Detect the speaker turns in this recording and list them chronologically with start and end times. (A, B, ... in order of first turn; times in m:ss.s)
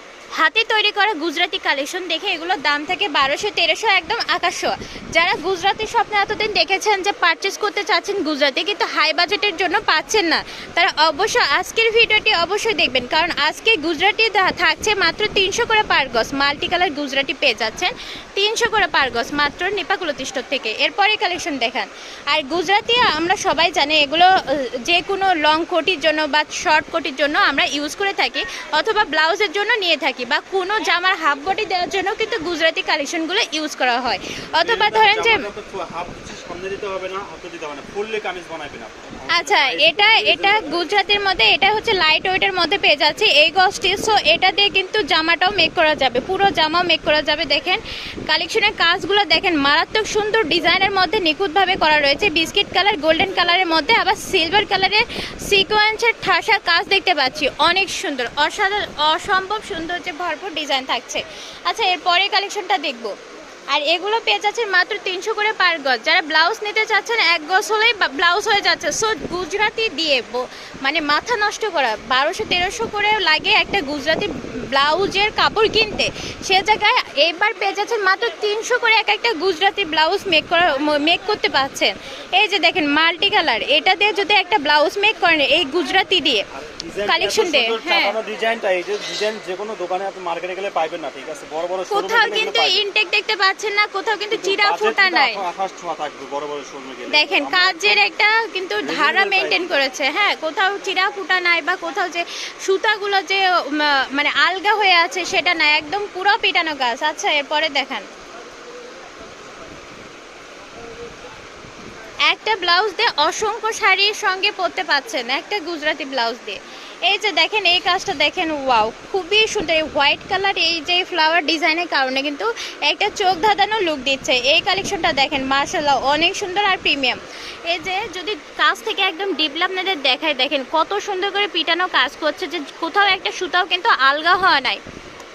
0:00.4-0:35.5 A
0:34.5-0:40.8 B
0:39.3-1:03.1 A
1:03.7-1:26.4 A
1:26.5-1:32.8 B
1:27.0-1:28.2 A
1:31.9-1:35.4 A
1:34.3-1:38.0 B
1:37.1-1:48.0 A
1:38.8-1:39.8 B
1:52.3-2:14.8 A